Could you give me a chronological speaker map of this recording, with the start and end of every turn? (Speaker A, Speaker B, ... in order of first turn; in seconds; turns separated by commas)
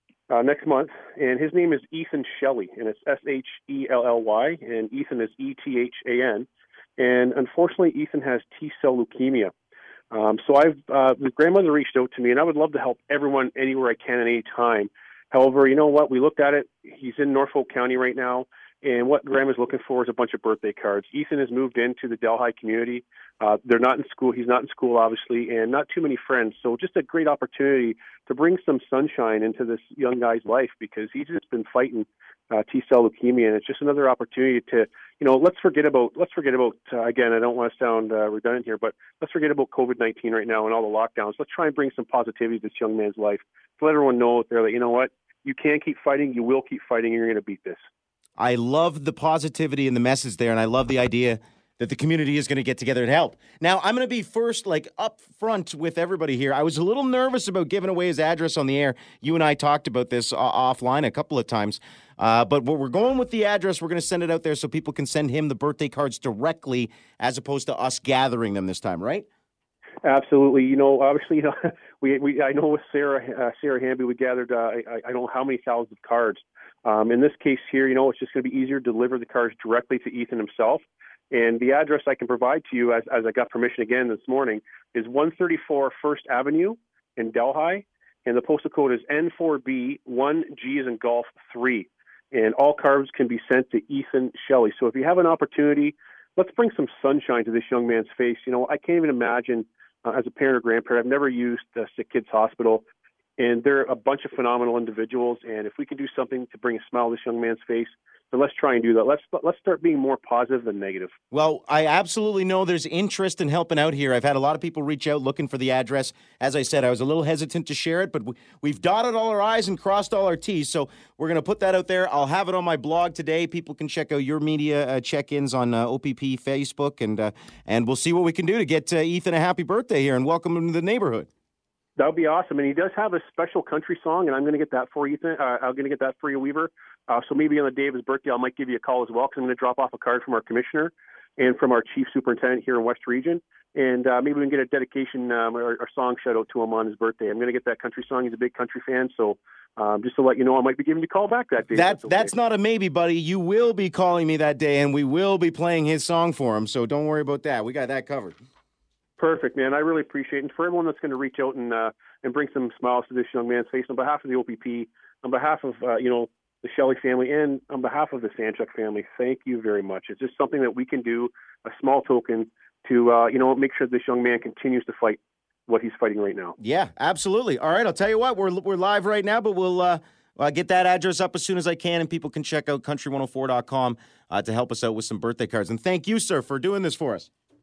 Speaker A: 0.3-6.5, Speaker A: 7.0-9.5, Speaker A: 10.1-47.8, Speaker B: 48.4-69.2, Speaker A: 70.0-102.8, Speaker A: 103.4-111.1, Speaker B: 111.3-131.3, Speaker A: 132.0-152.3, Speaker B: 151.7-158.4, Speaker A: 159.2-176.6, Speaker B: 176.6-187.3